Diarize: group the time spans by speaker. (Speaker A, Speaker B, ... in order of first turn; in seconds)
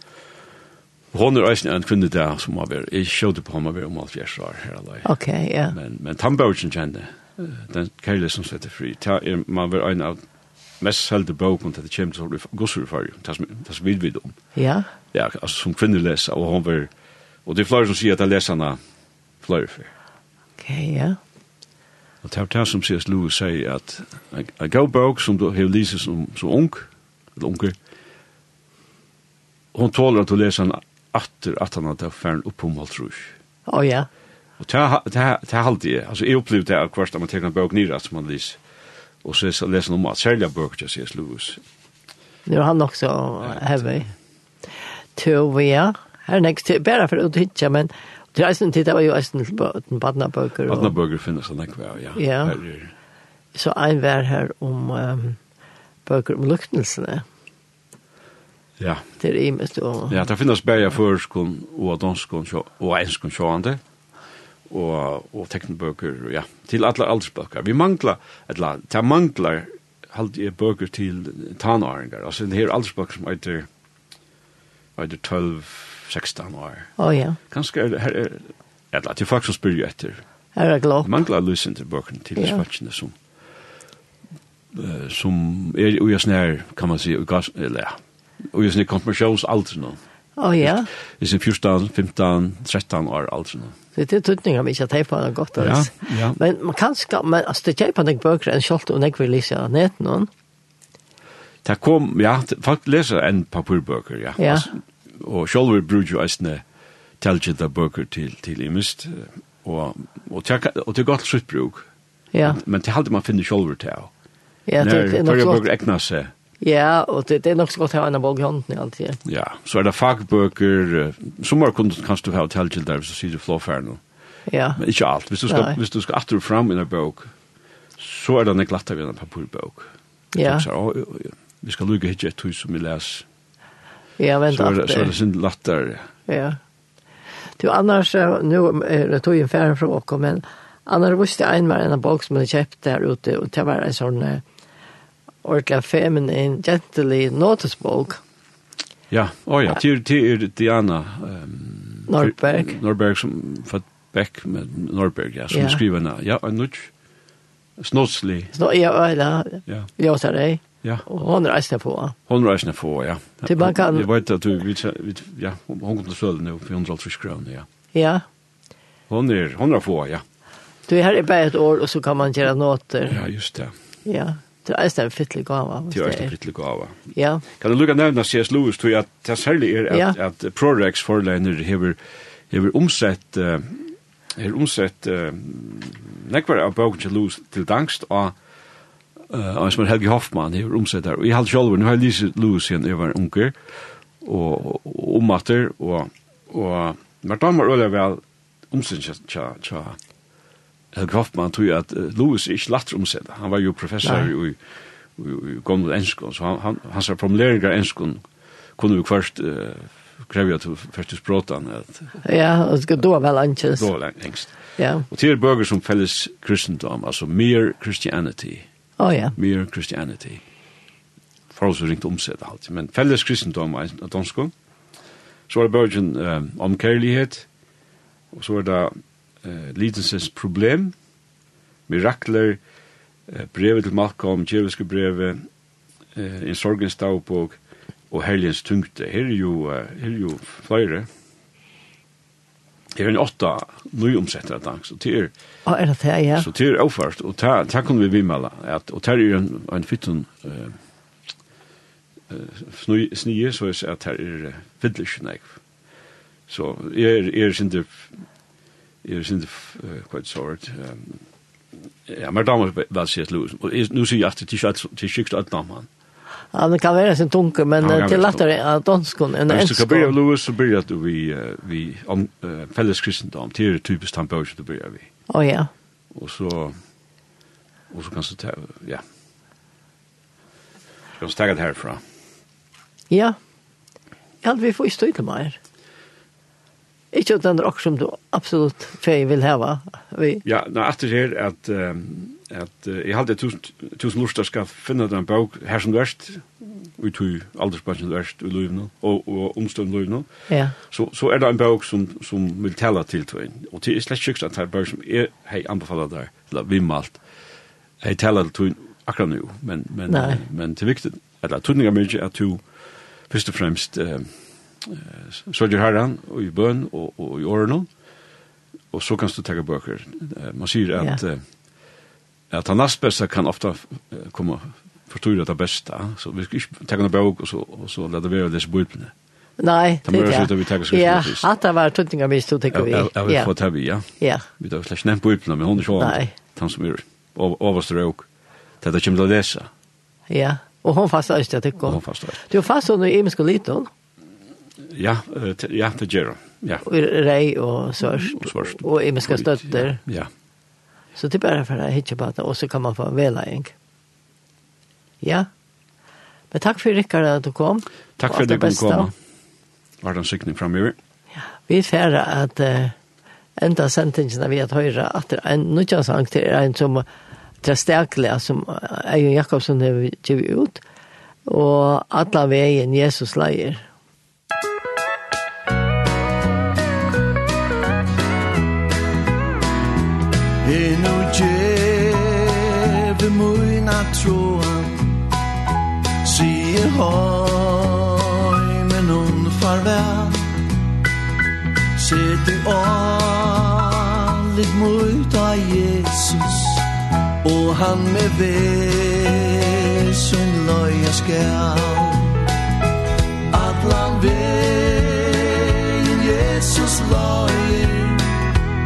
Speaker A: 1.1-5.0, 5.7-10.2, 10.8-14.3, 15.1-16.9, 17.4-18.8, 19.4-19.9, 22.2-27.8, 29.7-33.3, 34.6-38.6, 39.2-41.6, 43.4-44.0, 50.7-52.9, 58.8-59.0, 60.1-63.8, 64.7-73.7, 75.0-76.9, 77.5-80.2, 81.0-83.1, 84.7-88.0, 88.5-90.0, 90.6-93.8, 95.6-96.4, 101.6-106.6, 107.2-111.9, 112.4-114.1, 114.8-116.3, 119.2-124.0, 124.8-127.3, 128.0-133.2, 134.5-136.1, 149.1-156.9, 157.8-158.5, 162.3-167.7, 169.1-170.2, 173.1-173.7, 175.9-177.0, 177.5-182.0, 182.5-188.3, 189.3-193.6, 194.2-200.0, 200.9-204.6, 205.2-208.2, 208.8-212.1, 213.8-214.5, 215.1-218.6, 219.3-220.4, 221.5-224.5, 225.5-227.4, 228.3-230.9, 231.9-232.6, 233.3-235.4, 236.1-237.6, 238.1-241.1, 242.9-245.3, 246.4-250.8, 252.3-255.6, 256.5-258.1, 259.0-261.2, 262.1-265.9, 267.8-268.4, 269.5-275.1, 276.1-276.8, 277.9-279.0, 281.2-282.0, 290.4-300.3, 300.9-307.2, 308.0-312.6, 313.3-314.3, 314.8-317.9, 318.9-321.4, 322.5-329.1, 330.0-331.5, 332.7-338.3, 338.8-339.7, 341.8-342.4, 344.8-346.8, 348.0-350.3, 358.2-359.1, 360.0-360.9
Speaker B: 5.0-5.7, 14.6-14.9, 20.6-21.2, 33.7-34.1, 42.5-44.1, 45.1-50.9, 52.1-52.6, 53.5-55.4, 56.0-57.2, 59.2-60.2, 77.0-77.4, 80.5-81.1, 90.4-90.9, 94.0-100.3, 104.4-104.7, 112.3-112.6, 114.7-115.6, 116.6-119.2, 124.5-124.8, 125.5-125.8, 130.3-130.7, 134.2-135.1, 136.3-136.6, 137.6-144.4, 145.4-148.2, 152.1-152.7, 155.5-155.8, 158.5-162.2, 163.4-164.1, 167.9-168.2, 170.9-173.2, 174.0-176.3, 177.1-177.4, 179.9-180.2, 204.0-204.3, 212.2-213.9, 214.8-215.1, 219.0-219.3, 245.7-246.5, 266.5-270.1, 275.3-275.7, 283.1-283.4, 284.4-285.6, 287.1-290.4, 300.5-300.8, 310.1-310.4, 329.6-333.5, 334.2-334.4, 336.0-336.3, 340.3-343.9, 346.8-350.0, 351.1-353.7, 355.2-355.5, 356.5-359.1, 361.7-362.9, 363.6-367.1, 367.6-370.8, 371.4-373.8
Speaker C: 380.6-385.2, 386.2-390.5, 391.9-396.9, 397.4-402.5, 403.5-408.4